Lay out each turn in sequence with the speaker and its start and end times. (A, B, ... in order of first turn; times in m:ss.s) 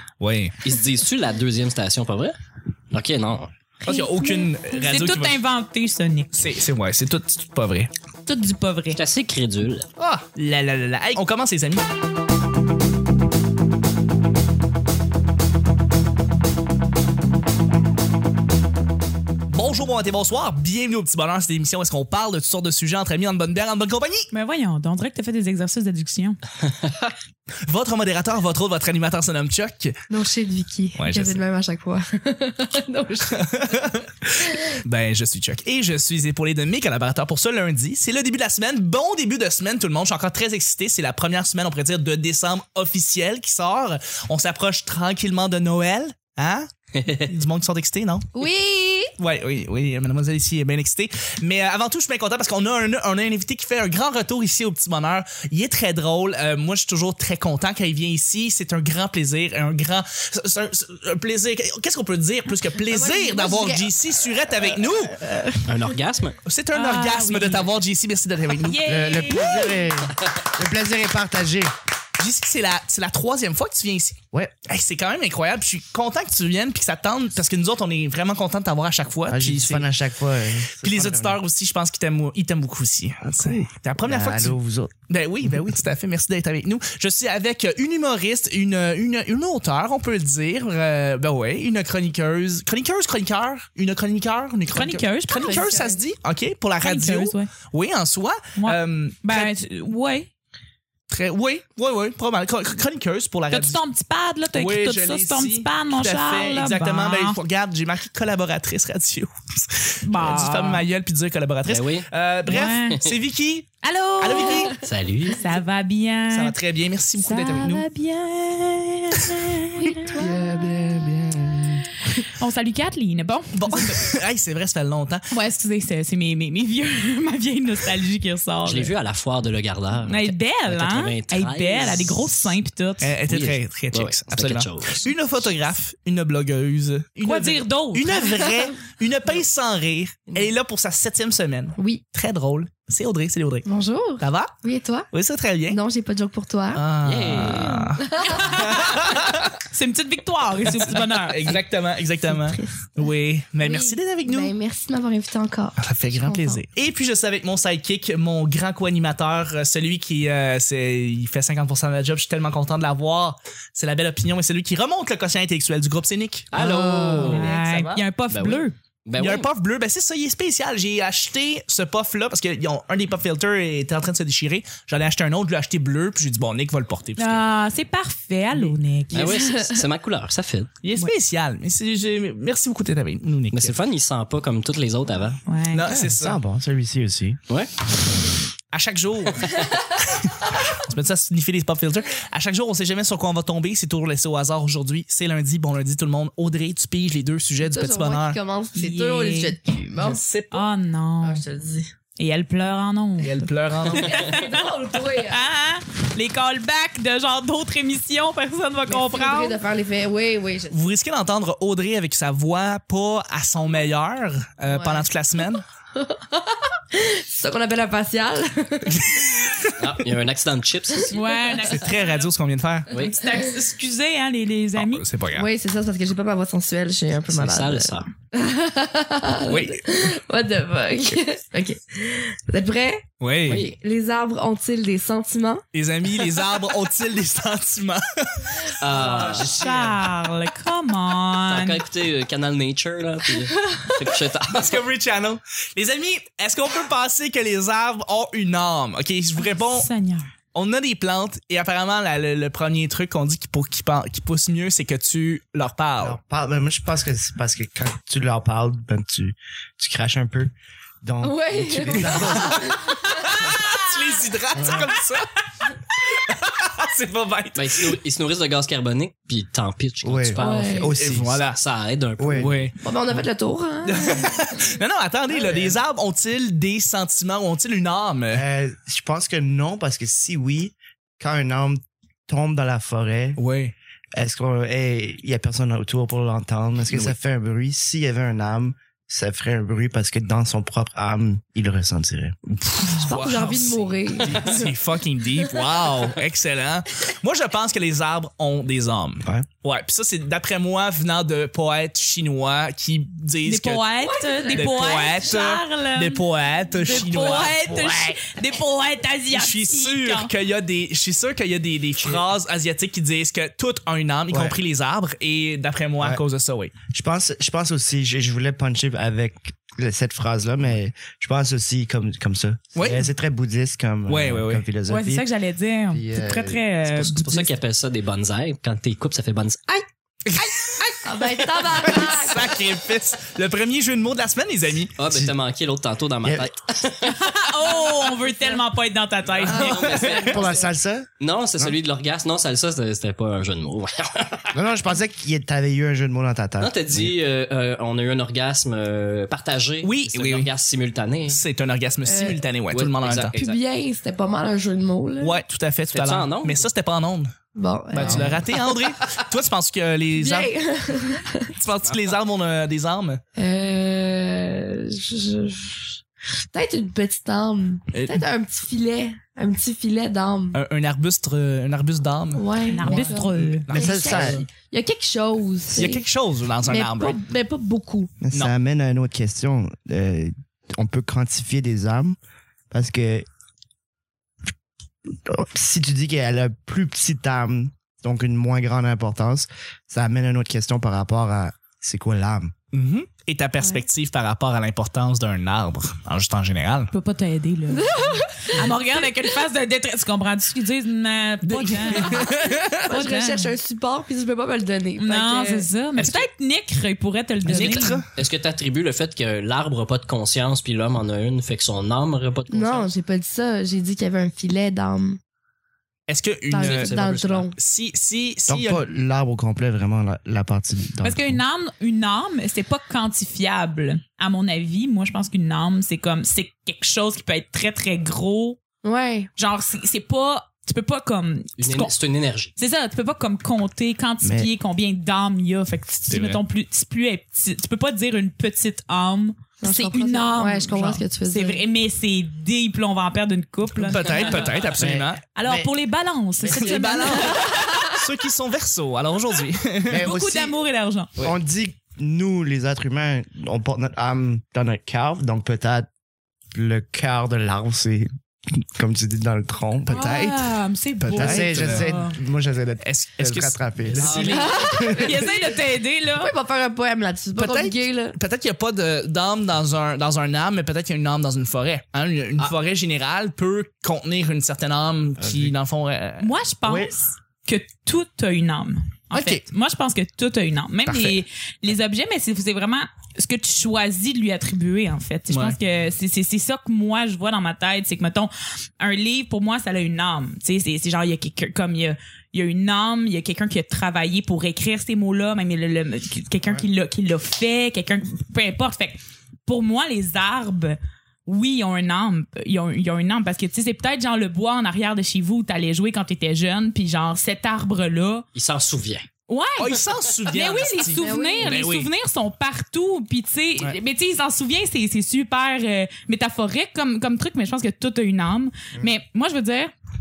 0:00.2-0:00.5 A
0:00.6-0:02.3 B
0:02.9-0:03.5 B
0:03.8-0:05.4 A
0:03.8-0:06.5 C
0:06.3-0:07.9 A
0:08.2-0:09.0 C
0:08.9-0:09.9 B
0:10.0-0:11.8 A
0:19.5-0:24.3 A
0:24.3-0:26.4 C
0:27.6-0:29.9 A
0:30.1-0:33.9 D
0:31.0-0:31.4 A
0:33.3-0:34.1 A
0:34.7-0:48.3 A
0:47.0-0:47.2 B
0:48.3-0:49.1 D
0:49.2-1:05.2 A
1:02.8-1:03.9 D
1:05.2-1:05.6 D
1:05.6-1:06.4 B
1:06.4-1:08.8 A
1:06.7-1:07.7 C
1:08.6-1:09.9 C
1:08.8-1:11.7 E
1:12.2-1:19.9 A
1:19.3-1:21.4 E
1:20.8-1:24.6 A
1:23.2-1:24.9 E
1:25.1-1:39.5 A
1:34.7-1:35.8 C
1:35.4-1:36.0 D
1:36.8-1:37.5 C
1:38.6-1:40.3 C
1:41.1-1:43.8 A
1:43.5-1:47.4 C
1:44.5-1:54.8 A
1:50.0-1:50.8 C
1:51.7-1:52.1 B
1:52.4-1:53.0 C
1:52.9-1:53.2 B
1:53.8-1:54.8 C
1:54.7-1:55.4 B
1:55.3-1:56.5 C
1:56.3-1:57.9 A
1:57.2-2:00.3 C
2:00.1-2:00.7 D
2:00.2-2:01.9 E
2:02.1-2:04.1 C
2:03.5-2:05.2 A
2:05.3-2:08.9 C
2:08.6-2:12.5 B
2:10.0-2:13.2 C
2:13.0-2:23.7 A
2:13.3-2:15.1 B
2:17.2-2:18.4 C
2:18.4-2:18.7 D
2:21.8-2:22.0 D
2:23.6-2:25.1 D
2:24.2-2:24.5 A
2:25.1-2:25.8 A
2:25.7-2:26.8 D
2:26.7-2:29.5 A
2:27.0-2:27.9 B
2:27.3-2:28.7 D
2:28.2-2:31.6 C
2:30.8-2:34.5 A
2:32.3-2:32.8 D
2:33.6-2:36.6 D
2:35.8-2:48.0 A
2:46.5-2:47.5 B
2:46.6-2:47.4 D
2:47.2-2:48.7 C
2:48.3-2:49.5 B
2:49.2-2:57.4 A
2:57.2-2:59.3 C
2:59.1-3:00.7 B
2:59.2-2:59.8 D
3:00.8-3:03.8 A
3:03.5-3:05.4 B
3:05.4-3:05.9 C
3:05.7-3:06.4 A
3:05.9-3:07.4 E
3:07.5-3:08.0 B
3:08.7-3:18.4 A
3:17.6-3:20.2 D
3:18.7-3:19.6 C
3:20.0-3:20.7 A
3:20.5-3:21.4 C
3:21.2-3:21.9 D
3:22.2-3:23.4 C
3:23.2-3:24.2 A
3:23.9-3:24.2 B
3:24.0-3:25.5 D
3:24.1-3:29.6 C
3:28.9-3:30.8 D
3:30.7-3:35.6 A
3:34.7-3:35.0 D
3:36.0-3:39.6 D
3:38.9-3:39.8 A
3:39.8-3:41.1 B
3:40.9-3:41.6 D
3:41.1-3:42.3 C
3:41.6-3:42.9 A
3:42.9-3:43.2 B
3:42.9-3:45.0 C
3:44.8-3:45.5 A
3:45.3-3:55.6 D
3:47.3-3:48.1 B
3:49.5-3:49.8 A
3:53.2-3:53.7 A
3:53.4-3:53.7 B
3:55.7-4:00.0 A
3:58.8-3:59.5 B
3:59.3-4:01.8 C
4:01.5-4:04.8 B
4:04.5-4:09.9 A
4:09.5-4:10.3 C
4:10.5-4:16.2 A
4:16.0-4:22.8 E
4:21.2-4:23.0 D
4:21.9-4:28.0 A
4:27.6-4:30.9 B
4:30.0-4:31.4 E
4:30.4-4:30.9 D
4:31.0-4:31.6 A
4:31.5-4:32.5 B
4:32.2-4:32.5 E
4:32.3-4:32.8 A
4:32.8-4:34.4 D
4:33.8-4:38.4 A
4:35.3-4:35.7 E
4:38.3-4:43.4 E
4:43.4-4:43.7 A
4:44.1-4:52.4 E
4:52.5-5:03.8 A
4:52.9-4:54.7 D
5:03.4-5:10.3 C
5:04.1-5:04.7 D
5:04.5-5:08.2 A
5:09.3-5:16.7 A
5:14.3-5:14.6 E
5:16.9-5:25.3 E
5:22.8-5:23.1 A
5:24.1-5:24.6 A
5:24.9-5:27.5 C
5:25.9-5:26.6 E
5:26.8-5:29.8 B
5:30.2-5:34.9 A
5:31.0-5:32.6 D
5:35.0-5:37.5 B
5:36.2-5:36.5 E
5:37.0-5:40.4 C
5:38.2-5:38.6 D
5:39.4-5:40.3 A
5:39.4-5:40.4 B
5:39.6-5:40.6 D
5:40.2-5:41.1 E
5:41.2-5:44.6 B
5:44.5-5:47.1 E
5:46.6-5:51.4 B
5:49.8-5:50.5 A
5:51.3-5:53.3 A
5:52.0-5:52.4 D
5:52.7-5:53.6 B
5:53.4-5:55.4 D
5:55.2-5:57.3 A
5:55.9-5:56.7 B
5:57.6-5:58.6 D
5:57.9-6:00.5 A
5:58.0-5:58.3 E
6:00.2-6:01.5 D
6:01.6-6:03.2 A
6:03.4-6:06.0 D
6:06.5-6:10.6 D
6:07.9-6:08.2 A
6:10.5-6:14.5 A
6:12.3-6:16.0 D
6:12.7-6:13.7 C
6:13.7-6:14.4 E
6:15.7-6:17.2 A
6:16.6-6:18.1 D
6:18.2-6:22.2 E
6:22.7-6:23.2 E
6:25.1-6:32.5 E
6:32.7-6:36.9 A
6:36.9-6:43.5 C
6:37.7-6:38.6 D
6:41.4-6:42.9 A
6:42.8-6:45.7 D
6:45.0-6:48.0 C
6:46.0-6:46.3 A
6:47.4-6:48.1 A
6:47.5-6:52.9 B
6:52.5-6:55.2 D
6:56.1-6:57.0 A
6:56.5-6:57.5 D
6:56.6-6:57.5 B
6:57.5-6:58.8 A
6:58.5-7:01.4 E
7:01.0-7:08.6 C
7:08.8-7:09.3 D
7:09.4-7:11.9 C
7:11.6-7:12.5 B
7:12.6-7:24.6 C
7:14.2-7:14.5 E
7:16.1-7:16.4 A
7:19.6-7:21.6 D
7:23.8-7:25.2 A
7:24.8-7:25.7 E
7:25.3-7:28.0 C
7:26.4-7:27.1 E
7:26.5-7:30.1 A
7:27.3-7:27.9 D
7:29.9-7:30.6 E
7:30.0-7:31.1 C
7:31.2-7:35.9 E
7:36.5-7:38.1 E
7:38.7-7:40.0 E
7:39.9-7:41.9 A
7:39.9-7:42.2 C
7:41.1-7:45.2 E
7:42.8-7:44.6 A
7:44.0-7:44.7 B
7:44.3-7:45.2 D
7:44.8-7:46.3 C
7:46.1-7:48.2 D
7:47.4-7:56.3 A
7:55.2-7:55.5 E
7:56.2-8:28.2 C
7:56.6-7:56.9 E
7:59.1-7:59.4 A
8:00.8-8:01.2 A
8:05.3-8:05.6 A
8:28.3-8:29.1 B
8:29.3-8:39.7 C
8:29.6-8:31.9 A
8:31.0-8:31.6 D